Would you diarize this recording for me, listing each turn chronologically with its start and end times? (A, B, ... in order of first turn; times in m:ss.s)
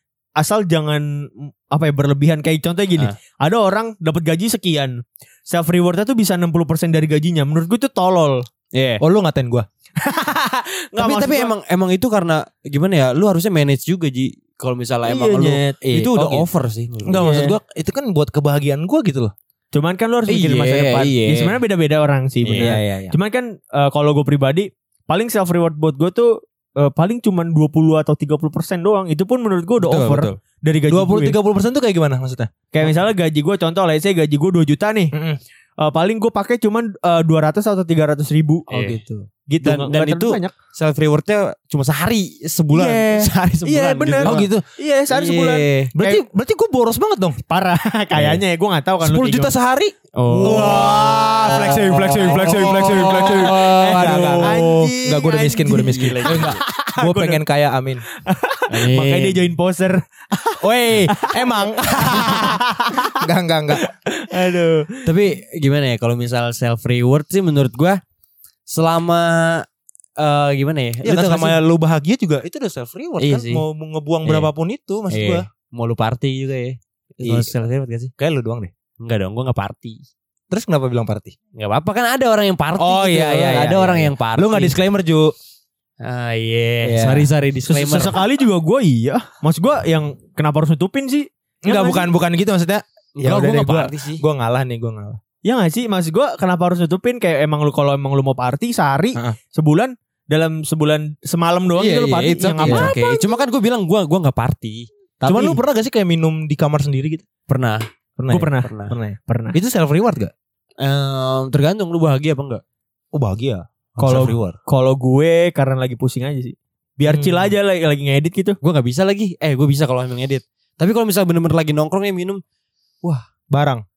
0:00.4-0:08.5 A
0:08.7-0:09.0 B
0:09.0-0:09.7 C
0:10.0-0:11.5 A
0:11.0-0:17.2 B
0:15.1-0:15.8 A
0:15.8-0:16.5 C
0:17.0-0:19.3 C
0:17.2-0:17.6 A
0:19.7-0:31.4 A
0:20.3-0:21.6 B
0:22.4-0:22.7 B
0:22.6-0:23.2 C
0:29.8-0:30.4 C
0:30.9-0:32.9 C
0:32.7-0:35.1 A
0:35.1-0:35.4 C
0:35.8-0:38.7 A
0:38.7-0:39.0 B
0:38.7-0:39.3 C
0:39.5-0:40.5 A
0:39.6-0:44.5 B
0:42.7-0:46.2 A
0:44.2-0:44.6 C
0:45.1-0:45.9 B
0:46.0-0:47.4 C
0:47.5-0:49.5 A
0:49.0-0:58.0 C
0:50.2-0:54.6 B
0:50.4-0:57.4 A
0:55.7-0:56.6 B
0:58.2-1:05.1 A
0:58.7-0:59.5 B
1:00.6-1:03.8 C
1:05.0-1:08.0 B
1:08.7-1:09.7 B
1:10.2-1:11.6 B
1:11.0-1:15.4 C
1:13.2-1:13.6 B
1:14.2-1:14.5 B
1:15.1-1:18.1 B
1:17.2-1:17.5 C
1:18.2-1:18.7 C
1:19.0-1:20.0 B
1:20.5-1:21.3 C
1:21.6-1:24.8 B
1:22.8-1:25.3 C
1:26.0-1:28.2 B
1:26.8-1:27.3 C
1:27.7-1:32.1 A
1:31.6-1:35.2 C
1:33.2-1:34.2 B
1:35.4-1:43.3 A
1:41.8-1:44.9 B
1:42.6-1:42.9 C
1:45.2-1:45.6 A
1:45.3-1:47.2 C
1:47.5-1:47.8 B
1:48.2-1:50.3 C
1:48.3-1:48.7 A
1:48.6-1:49.0 B
1:49.3-1:49.6 A
1:50.8-1:52.6 B
1:53.1-1:54.6 C
1:54.0-1:58.6 A
1:57.0-1:57.5 C
1:58.6-2:02.4 B
2:03.5-2:03.8 C